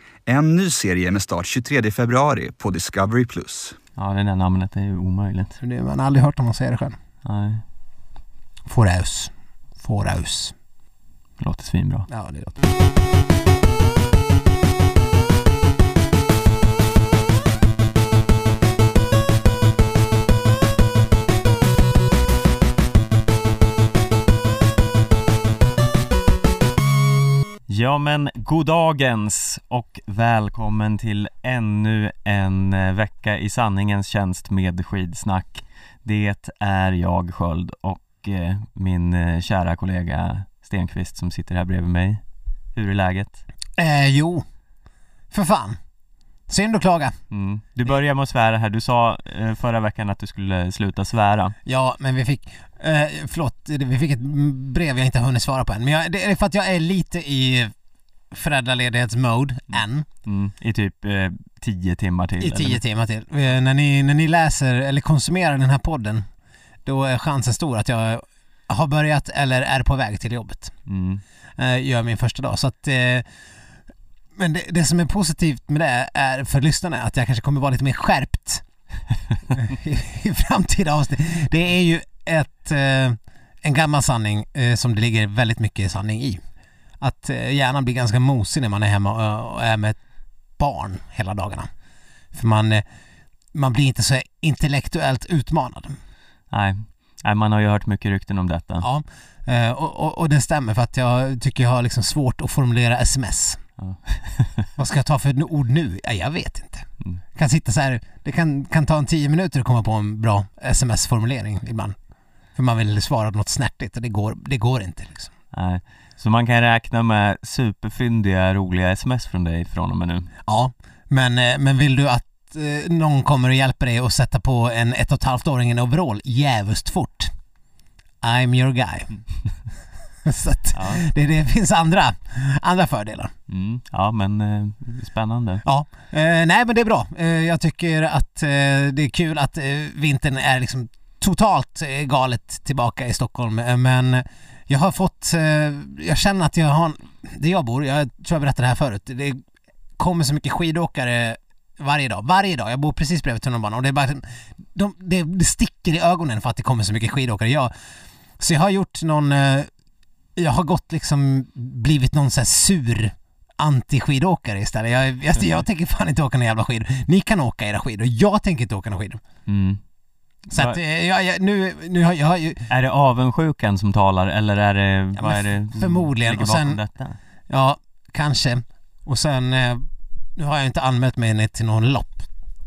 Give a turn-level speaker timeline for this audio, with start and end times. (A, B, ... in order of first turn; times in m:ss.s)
0:00.3-0:03.8 A
0:04.0-0:05.6 B
0:05.6-0:07.0 C
0:07.2-0:07.6 B
0:08.7-0:10.6 C
0:11.4-0:12.1 B
0:12.1-0:12.6 C
0:27.7-0:42.2 B
0:42.8-0:43.4 B
0:43.8-0:44.4 C
0:45.3-0:45.8 C
0:46.5-0:47.2 C
0:47.3-0:51.6 B
0:51.7-0:57.7 C
0:58.3-1:00.1 C
0:59.7-1:02.8 B
1:02.4-1:06.3 C
1:06.8-1:10.7 C
1:10.9-1:11.2 B
1:11.6-1:13.3 C
1:14.4-1:18.6 C
1:19.5-1:26.4 C
1:27.0-1:30.0 C
1:30.6-1:31.7 C
1:32.3-1:32.8 C
1:33.5-1:36.0 C
1:36.5-1:38.9 B
1:38.8-1:43.6 C
1:43.8-1:44.7 B
1:44.8-1:52.0 C
1:52.6-1:55.3 C
1:55.5-2:00.3 B
2:00.5-2:07.3 C
2:08.2-2:09.1 C
2:10.2-2:13.3 C
2:10.7-2:11.0 B
2:13.5-2:15.6 B
2:15.6-2:29.4 C
2:30.0-2:37.7 C
2:38.4-2:39.7 C
2:40.4-2:49.2 C
2:49.5-2:49.8 B
2:50.5-2:50.8 B
2:50.5-2:52.7 C
2:52.7-2:57.2 B
2:55.2-2:56.8 C
2:57.5-3:02.3 C